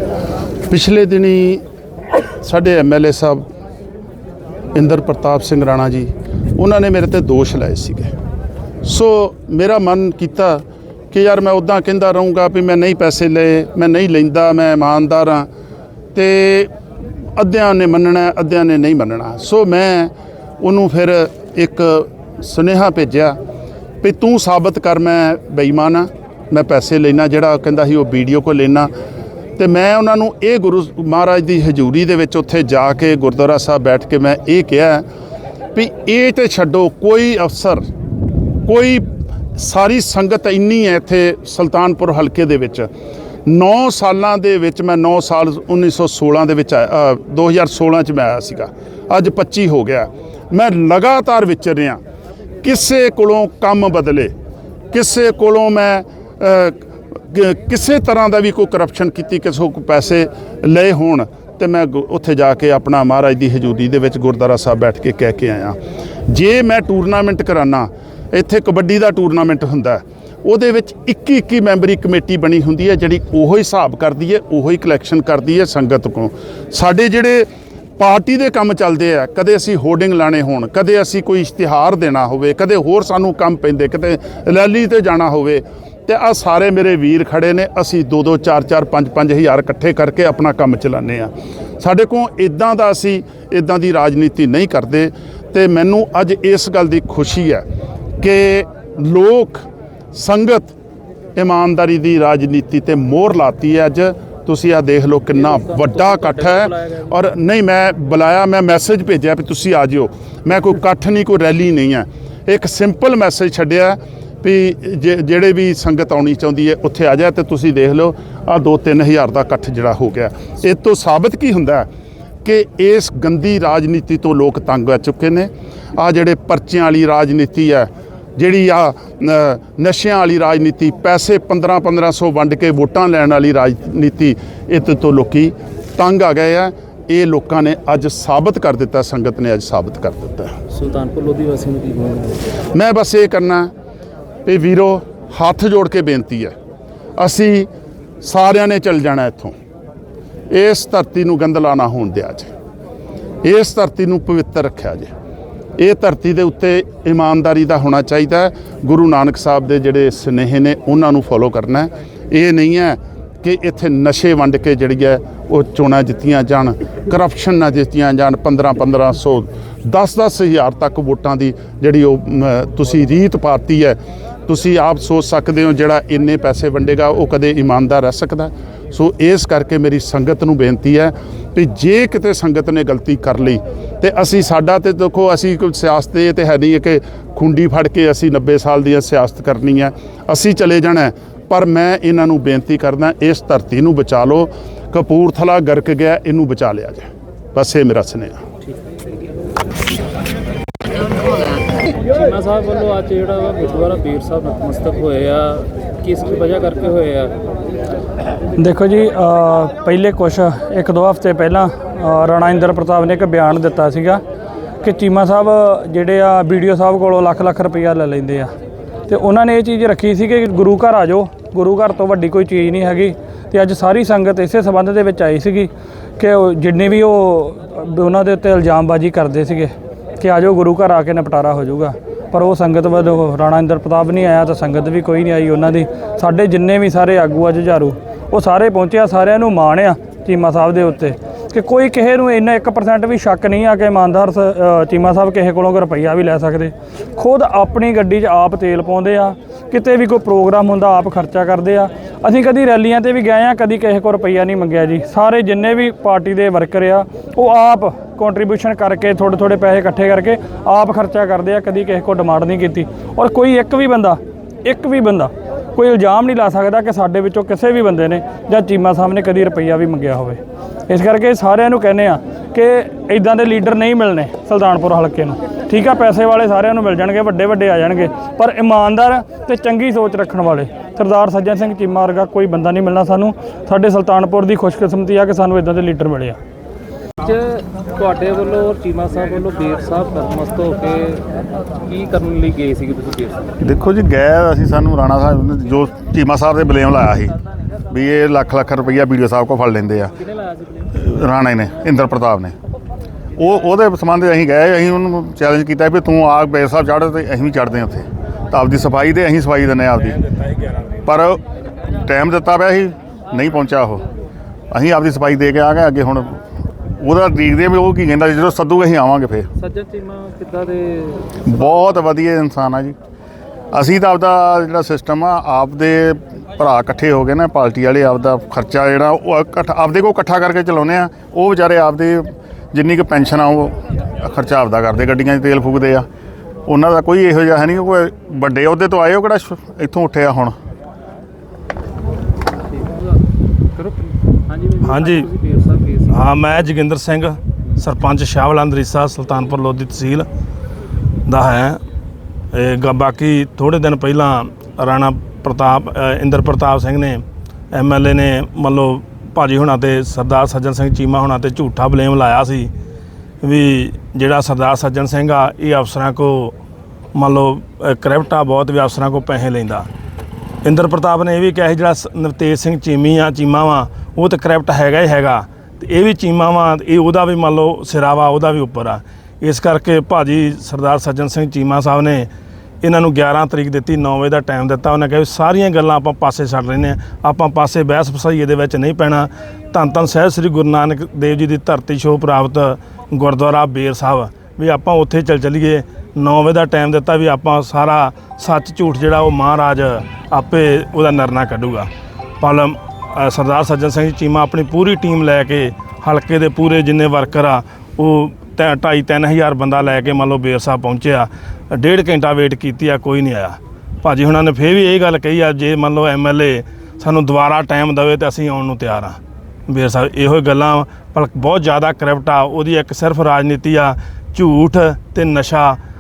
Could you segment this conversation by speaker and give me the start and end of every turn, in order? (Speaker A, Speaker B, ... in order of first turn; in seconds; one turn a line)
Speaker A: 0.7-1.6
Speaker A: 2.4-3.5
Speaker A: 4.7-8.1
Speaker A: 8.8-15.5
Speaker A: 16.1-16.7
Speaker A: 17.4-23.4
Speaker A: 24.0-28.9
Speaker A: 29.6-35.0
Speaker A: 35.8-37.9
Speaker A: 38.7-42.9
Speaker A: 43.5-52.0
Speaker A: 52.6-54.3
Speaker A: 54.9-65.8
Speaker A: 66.3-77.5
Speaker A: 78.0-97.6
Speaker A: 98.2-100.7
Speaker A: 101.4-121.9
Speaker B: 105.3-107.1
Speaker A: 122.5-140.6
Speaker B: 140.7-142.5
Speaker A: 142.7-143.7
Speaker A: 144.5-146.5
Speaker A: 147.2-147.7
Speaker A: 148.2-149.5
Speaker A: 150.5-152.5
Speaker A: 153.4-155.1
Speaker A: 155.8-198.4
Speaker B: 201.9-207.3
Speaker C: 208.6-214.2
Speaker C: 214.8-218.5
Speaker C: 219.1-286.4
Speaker B: 287.2-291.3
Speaker B: 291.8-293.5
Speaker D: 293.6-297.3
Speaker D: 297.9-300.1
Speaker B: 300.2-300.9
Speaker D: 301.0-302.6
Speaker D: 303.4-310.2
Speaker E: 310.0-311.0
Speaker D: 311.1-314.1
Speaker D: 314.7-316.4
Speaker D: 317.0-319.5
Speaker B: 319.6-322.0
Speaker D: 321.5-322.9
Speaker D: 323.7-336.1
Speaker D: 336.7-340.5
Speaker B: 342.7-343.0
Speaker B: 343.8-346.3
Speaker E: 344.8-345.3
Speaker E: 346.1-350.3
Speaker E: 351.3-351.8
Speaker E: 352.5-362.7
Speaker E: 363.4-366.5
Speaker E: 367.1-369.9
Speaker E: 370.6-382.3
Speaker E: 382.8-401.9
Speaker E: 402.4-419.2
Speaker E: 419.7-425.8